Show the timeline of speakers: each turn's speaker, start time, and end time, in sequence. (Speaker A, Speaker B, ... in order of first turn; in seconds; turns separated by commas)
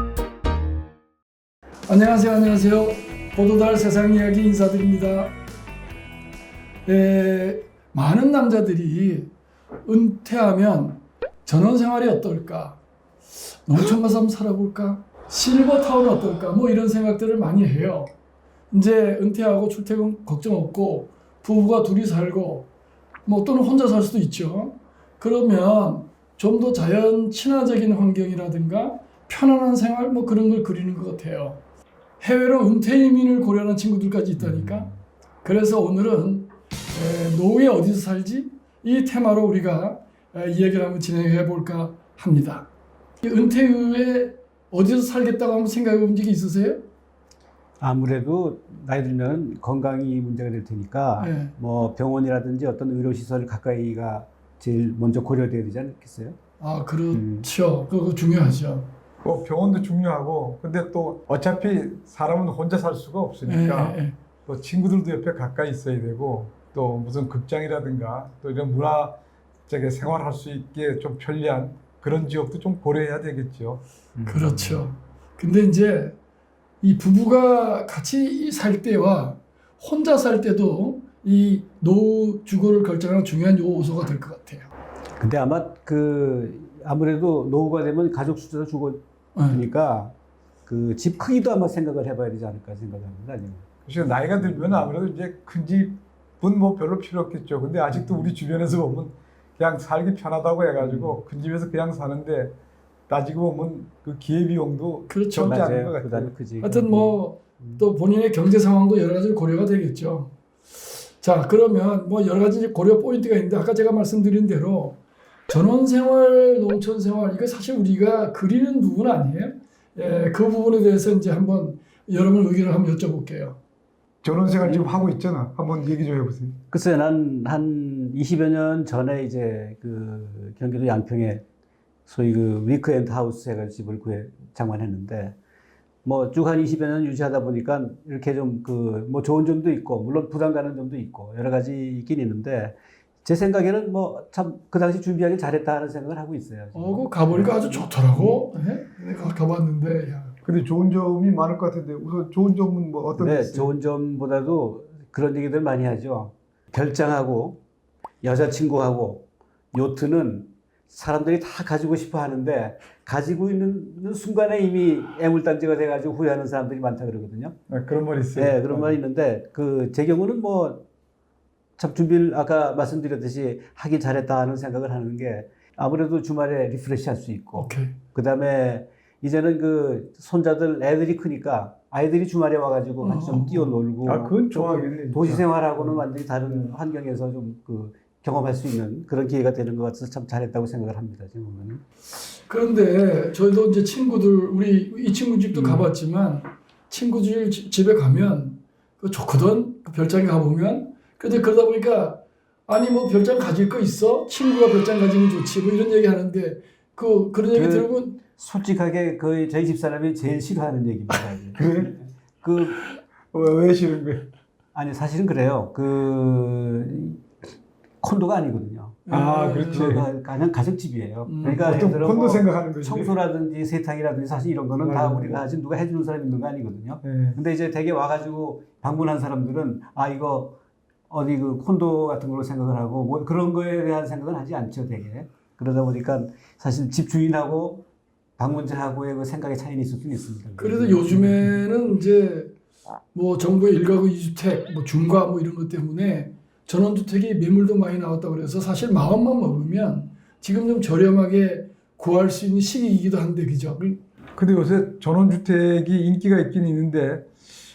Speaker A: 1.9-5.4, Speaker A: 6.9-9.3, Speaker A: 9.9-12.8, Speaker A: 13.7-18.1, Speaker A: 18.7-22.7, Speaker A: 23.3-31.6, Speaker A: 32.2-34.9, Speaker B: 34.4-34.8, Speaker A: 35.4-42.7, Speaker A: 43.2-46.8, Speaker B: 47.8-56.4, Speaker A: 51.2-51.5, Speaker A: 56.6-58.9, Speaker B: 57.1-57.5, Speaker C: 59.2-73.8, Speaker A: 63.5-64.2, Speaker B: 74.2-74.8, Speaker A: 74.3-76.2, Speaker A: 76.8-84.7, Speaker B: 85.2-90.2, Speaker A: 89.4-89.6, Speaker B: 90.7-93.7, Speaker C: 93.9-102.6, Speaker B: 94.3-94.9, Speaker B: 97.9-98.3, Speaker B: 100.8-101.2, Speaker C: 103.1-106.3, Speaker A: 105.1-105.7, Speaker B: 105.4-107.8, Speaker A: 106.6-110.3, Speaker A: 111.2-123.6, Speaker C: 124.2-126.6, Speaker B: 124.6-124.9, Speaker B: 126.7-131.4, Speaker B: 132.1-135.4, Speaker B: 136.1-148.4, Speaker A: 146.7-150.3, Speaker C: 150.4-153.7, Speaker B: 153.2-157.6, Speaker B: 158.2-167.6, Speaker C: 167.7-169.0, Speaker B: 168.3-170.8, Speaker B: 171.8-191.8, Speaker A: 177.6-177.9, Speaker A: 183.0-183.7, Speaker C: 184.1-186.8, Speaker A: 192.5-208.2, Speaker B: 195.5-195.9, Speaker B: 207.5-212.8, Speaker C: 211.6-211.9, Speaker C: 213.3-214.3, Speaker B: 214.7-217.2, Speaker B: 218.0-219.1, Speaker A: 219.1-219.9, Speaker C: 219.1-220.1, Speaker B: 219.7-230.6, Speaker A: 221.3-221.7, Speaker C: 221.5-223.2, Speaker C: 224.8-225.4, Speaker C: 227.0-227.4, Speaker B: 231.1-237.8, Speaker B: 238.4-241.6, Speaker A: 240.6-242.5, Speaker A: 243.1-254.0, Speaker C: 254.4-257.3